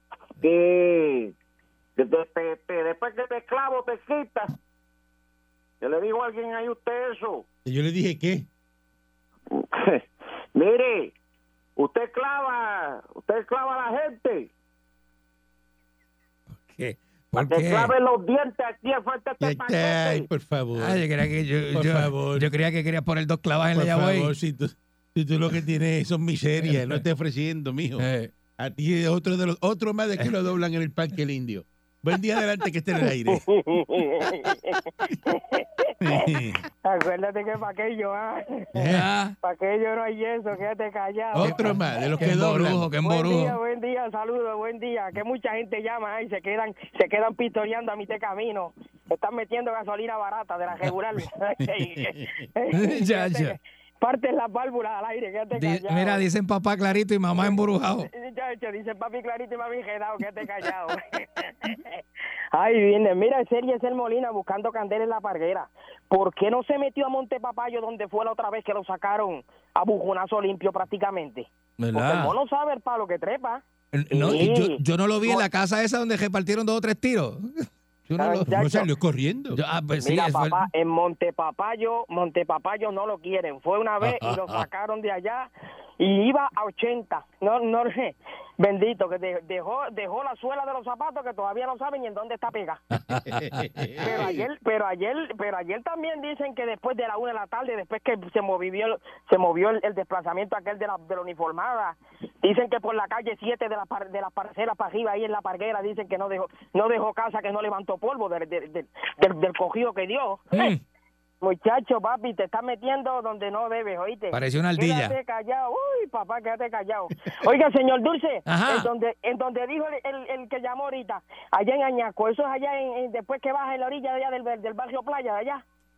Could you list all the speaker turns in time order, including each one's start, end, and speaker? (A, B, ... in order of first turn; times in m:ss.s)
0:00.4-0:01.3 A
0:02.0-0:04.5 A
0:05.8-0:07.4 A
0:07.6-0:08.5 B
0:09.5-0:11.1 A
0:11.8-0:14.5 A
0:16.5-0:17.9 C
0:17.4-0:20.3 A
0:19.4-0:21.0 B
0:20.8-0:24.3 C
0:21.7-0:22.5 B
0:23.7-0:28.1 B
0:26.6-0:27.0 C
0:28.0-0:28.3 C
0:28.6-0:33.5 B
0:33.3-0:36.3 D
0:36.0-0:36.6 B
0:36.8-0:38.7 D
0:38.8-0:39.1 B
0:38.9-0:39.4 C
0:39.4-0:41.8 D
0:41.3-0:43.6 C
0:41.4-0:42.9 B
0:43.0-0:56.3 D
0:51.7-0:52.4 B
0:52.7-0:53.6 C
0:55.5-0:58.1 C
0:58.1-1:02.0 D
1:02.5-1:14.8 D
1:11.8-1:12.4 C
1:14.0-1:18.5 C
1:14.2-1:15.4 B
1:18.2-1:18.9 D
1:18.3-1:19.6 B
1:19.5-1:20.7 C
1:20.0-1:25.5 D
1:24.0-1:24.7 C
1:26.0-1:32.8 D
1:33.0-1:34.4 C
1:33.3-1:34.3 B
1:34.0-1:50.7 D
1:50.5-1:50.8 C
1:51.4-2:05.6 D
1:54.3-1:55.2 C
1:58.5-1:58.9 C